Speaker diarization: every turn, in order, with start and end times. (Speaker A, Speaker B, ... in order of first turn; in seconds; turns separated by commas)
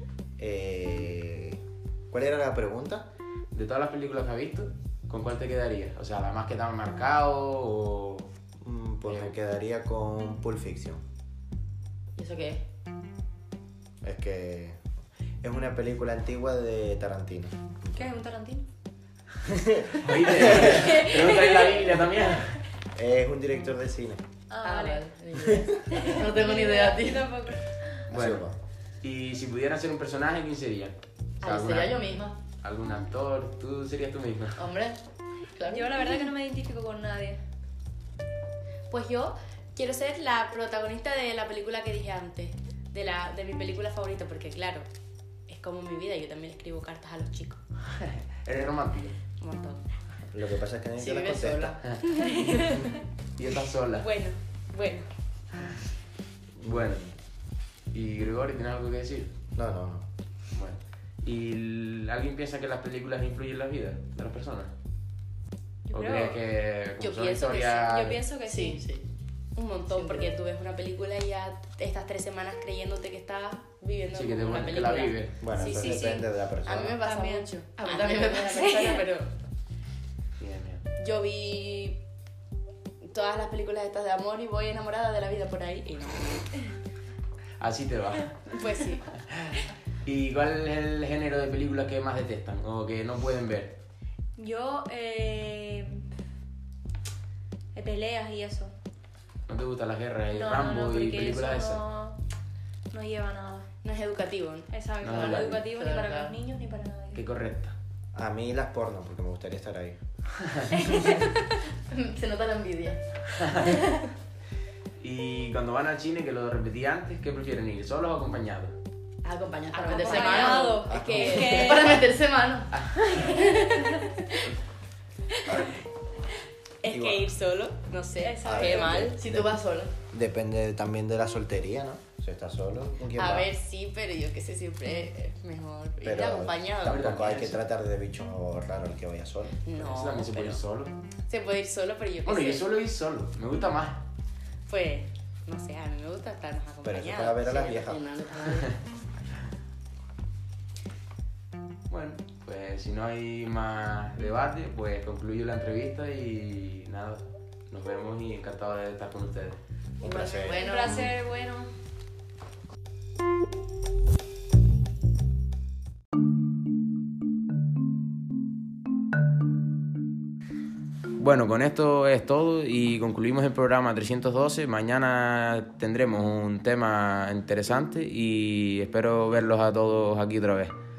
Speaker A: 0.4-3.1, Speaker B: 3.5-8.3, Speaker A: 8.6-11.0, Speaker B: 9.1-9.3, Speaker C: 12.2-12.6, Speaker A: 14.0-14.8, Speaker A: 15.4-18.1, Speaker D: 18.0-18.6, Speaker A: 19.4-20.7, Speaker B: 20.0-22.6, Speaker D: 20.5-21.6, Speaker A: 22.9-24.2, Speaker D: 24.5-25.0, Speaker C: 24.6-27.3, Speaker D: 25.9-27.6, Speaker B: 28.1-28.4, Speaker A: 28.1-28.6, Speaker B: 29.0-32.1, Speaker C: 31.4-32.4, Speaker B: 32.6-34.6, Speaker C: 34.6-35.0, Speaker C: 35.5-36.1, Speaker D: 35.7-37.4, Speaker E: 38.9-44.9, Speaker E: 45.5-47.6, Speaker B: 48.0-49.1, Speaker E: 49.4-50.3, Speaker A: 50.3-51.8, Speaker C: 51.0-51.8, Speaker E: 52.2-52.9, Speaker B: 53.4-54.0, Speaker E: 54.0-55.1, Speaker B: 56.6-57.1, Speaker B: 57.9-59.3, Speaker A: 59.5-60.1, Speaker B: 60.5-64.7, Speaker D: 65.9-66.4, Speaker B: 65.9-68.2, Speaker E: 67.0-67.9, Speaker D: 67.9-68.8, Speaker C: 68.5-69.0, Speaker E: 69.5-79.3, Speaker C: 69.9-70.3, Speaker B: 74.1-75.4, Speaker A: 75.4-77.0, Speaker D: 77.0-77.5, Speaker C: 77.8-78.6, Speaker D: 78.3-79.0, Speaker B: 80.4-80.8, Speaker E: 81.0-82.0, Speaker E: 83.1-86.6, Speaker B: 87.6-88.4, Speaker E: 88.5-89.1, Speaker B: 89.3-93.8, Speaker D: 94.4-96.0, Speaker D: 97.7-98.7, Speaker B: 99.5-101.8, Speaker D: 100.3-102.2, Speaker D: 102.9-103.7, Speaker E: 103.8-104.7, Speaker D: 104.7-107.2, Speaker B: 105.0-105.6, Speaker C: 105.2-106.3, Speaker B: 107.1-107.7, Speaker A: 108.1-110.0, Speaker B: 110.4-110.8, Speaker C: 111.9-113.0, Speaker B: 113.4-113.7, Speaker B: 115.0-118.7, Speaker C: 119.2-120.8, Speaker D: 119.7-121.8, Speaker E: 119.9-121.7, Speaker A: 120.8-121.8, Speaker C: 121.5-122.7, Speaker B: 122.8-123.2, Speaker E: 123.2-124.4, Speaker E: 126.8-129.2, Speaker A: 126.9-127.2, Speaker D: 128.2-129.1, Speaker A: 128.4-129.6, Speaker C: 128.6-129.9, Speaker A: 130.1-133.5, Speaker E: 133.1-137.1, Speaker A: 136.0-139.6, Speaker B: 136.8-137.6, Speaker E: 139.6-140.6, Speaker B: 139.7-140.9, Speaker E: 141.3-142.6, Speaker B: 142.2-144.0, Speaker E: 144.7-147.8, Speaker A: 146.8-148.0, Speaker C: 147.5-148.8, Speaker B: 151.9-159.6, Speaker A: 160.0-160.6, Speaker E: 160.0-161.1, Speaker D: 160.6-161.7, Speaker B: 171.2-180.7